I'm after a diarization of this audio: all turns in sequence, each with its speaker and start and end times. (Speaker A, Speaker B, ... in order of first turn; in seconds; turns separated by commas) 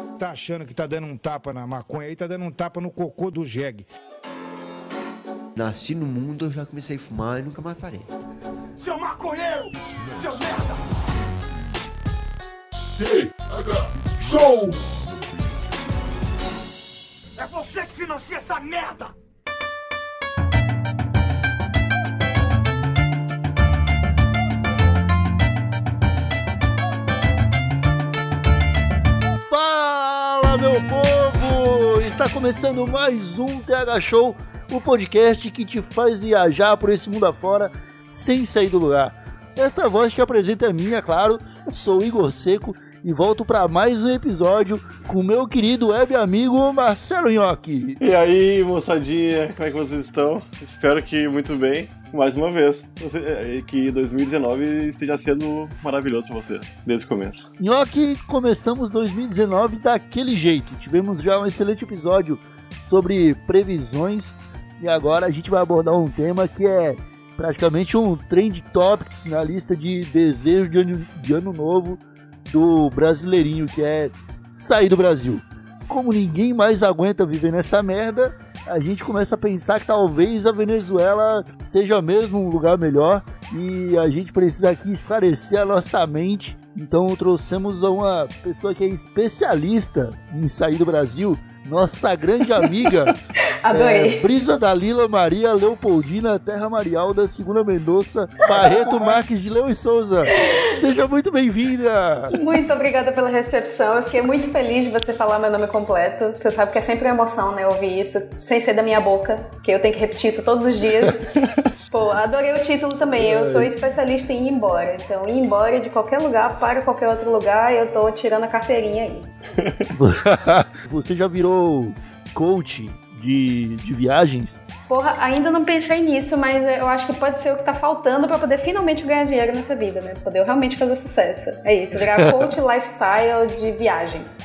Speaker A: 0.2-3.8, Speaker B: 5.5-8.1, Speaker C: 8.8-10.8, Speaker C: 13.0-14.8, Speaker C: 17.4-19.1, Speaker D: 29.4-48.0, Speaker E: 48.0-57.5, Speaker D: 57.6-93.1, Speaker F: 93.6-94.3, Speaker D: 93.7-102.4, Speaker F: 100.3-100.7, Speaker F: 102.3-111.4, Speaker F: 111.9-119.3, Speaker D: 113.1-113.7, Speaker D: 119.9-124.6, Speaker F: 124.9-134.3